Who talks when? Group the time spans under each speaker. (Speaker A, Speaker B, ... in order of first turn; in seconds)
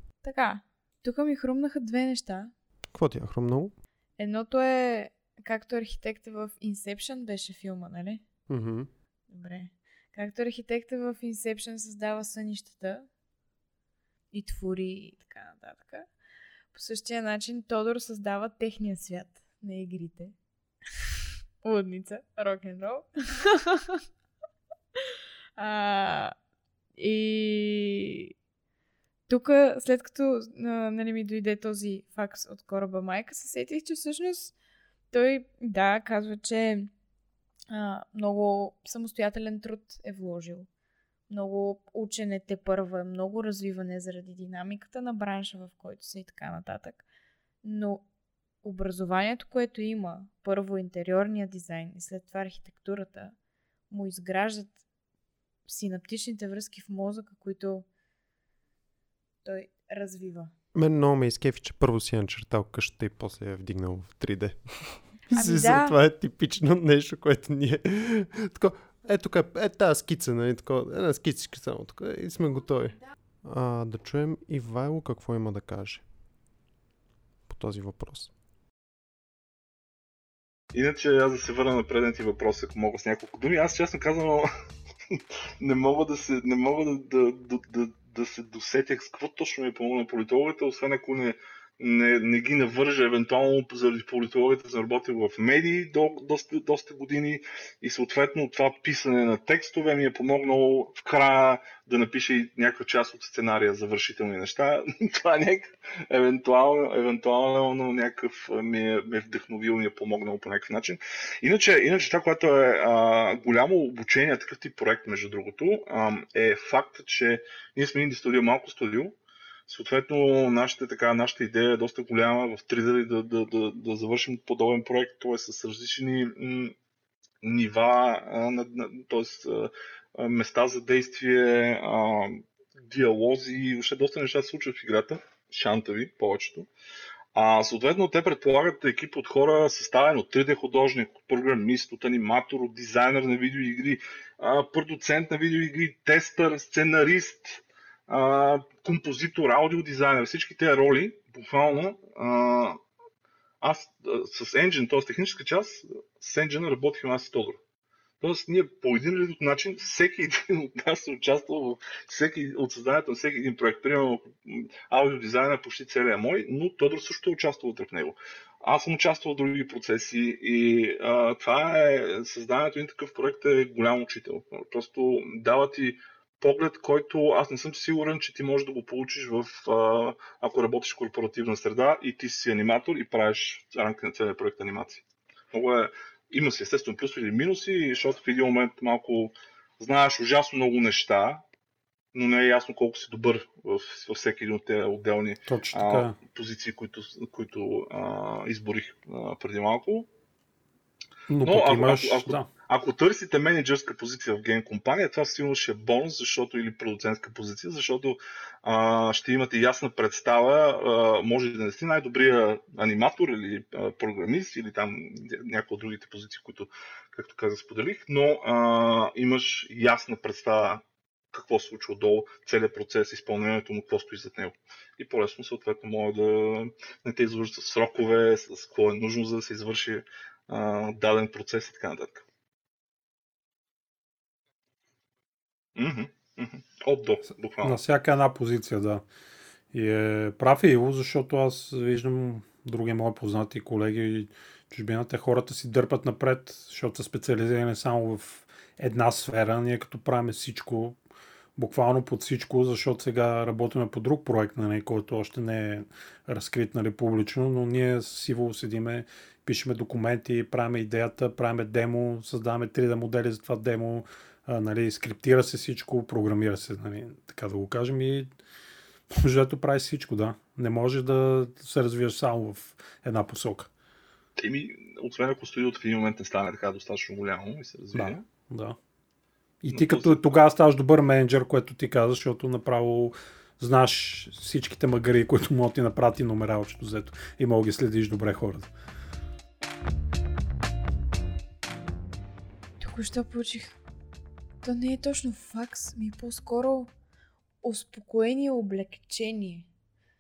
Speaker A: 0.2-2.5, 4.2-8.2, 9.3-13.1, 14.3-16.1, 16.7-20.4, 21.6-24.0, 25.6-26.4, 27.0-28.3, 29.3-34.5, 35.1-36.9, 37.7-40.7, 41.3-47.0, 47.6-48.0, 48.6-53.4, 53.9-54.8, 55.7-57.9, 59.4-60.5, 65.3-65.9, 292.8-293.8, 294.6-296.9, 297.6-299.7
Speaker B: 2.9-3.7, 8.5-8.9, 60.7-76.0, 77.5-78.3
Speaker C: 80.7-84.5, 85.1-119.2, 119.7-126.8, 127.4-136.7, 137.3-152.8, 153.6-157.6, 158.2-191.4, 192.1-200.1, 201.4-232.2, 235.8-237.8, 274.4-278.2, 279.7-280.2
Speaker D: 195.5-196.2, 201.3-202.5, 237.6-239.0, 239.7-251.0, 251.6-268.3, 269.1-273.7, 277.9-278.8, 279.6-288.7